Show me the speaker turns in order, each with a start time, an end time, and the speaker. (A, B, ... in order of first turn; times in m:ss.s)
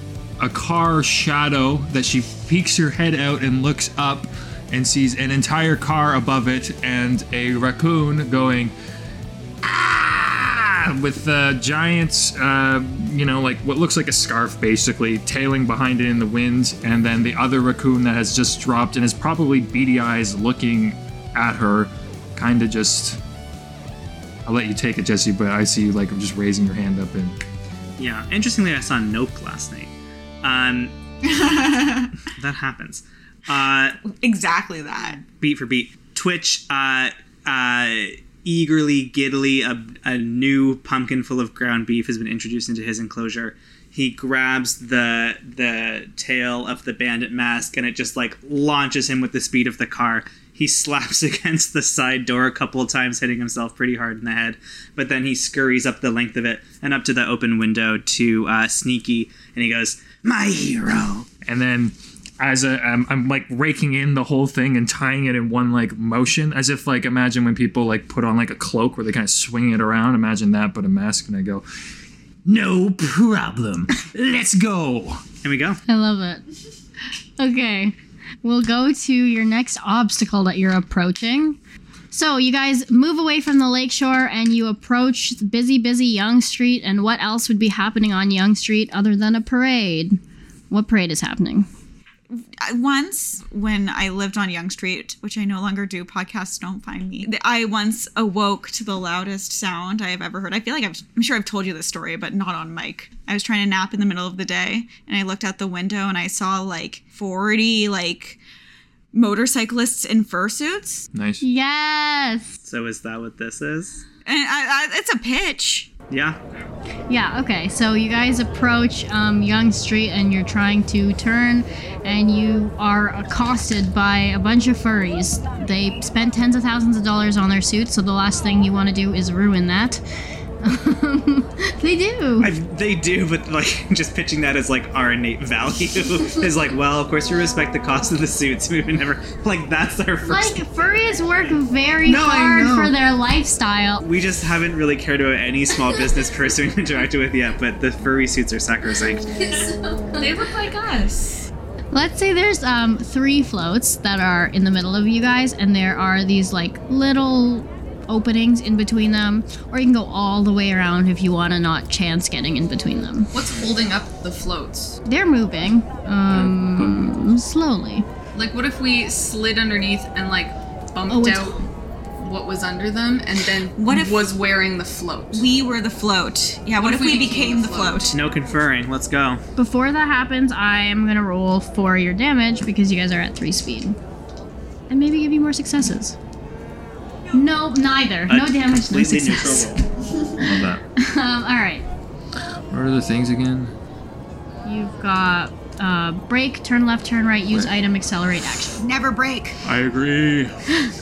0:00.4-0:08.7 A
0:09.6-0:23.2 A
0:24.4-0:27.4 A
0:28.0-0:30.9 B
0:31.2-0:32.1 C
0:32.3-0:34.0 B
0:34.0-0:35.2 C
0:35.2-1:01.3 B
1:01.4-1:11.6 A
1:12.4-1:15.2 A
1:15.4-1:15.8 B
1:15.9-1:16.4 D
1:17.4-1:21.6 D
1:22.1-1:30.2 D
1:30.7-1:31.7 D
1:32.3-1:48.4 C
1:49.1-1:51.1 C
1:51.1-1:51.4 A
1:51.4-1:52.6 D
1:52.6-1:54.0 B
1:54.2-1:55.9 C
1:56.1-1:56.4 B
1:57.1-2:10.0 D
2:10.6-2:12.5 D
2:12.4-2:21.5 B
2:20.2-2:24.0 D
2:22.0-2:22.9 B
2:24.0-2:29.5 B
2:30.1-2:31.5 E
2:31.9-2:43.3 D
2:43.3-2:45.0 E
2:45.0-2:48.0 D
2:46.3-2:47.1 A
2:48.3-2:51.6 E
2:51.1-2:51.6 D
2:52.2-2:55.5 E
2:53.8-2:54.3 C
2:55.3-2:58.2 C
2:56.8-2:58.1 E
2:58.1-2:59.4 B
2:59.6-3:04.0 D
3:04.9-3:06.2 D
3:07.3-3:09.8 D
3:08.3-3:09.8 B
3:10.4-3:10.8 A
3:11.0-3:11.8 D
3:12.7-3:13.7 A
3:14.6-3:18.8 D
3:18.8-3:19.6 C
3:19.6-3:20.6 A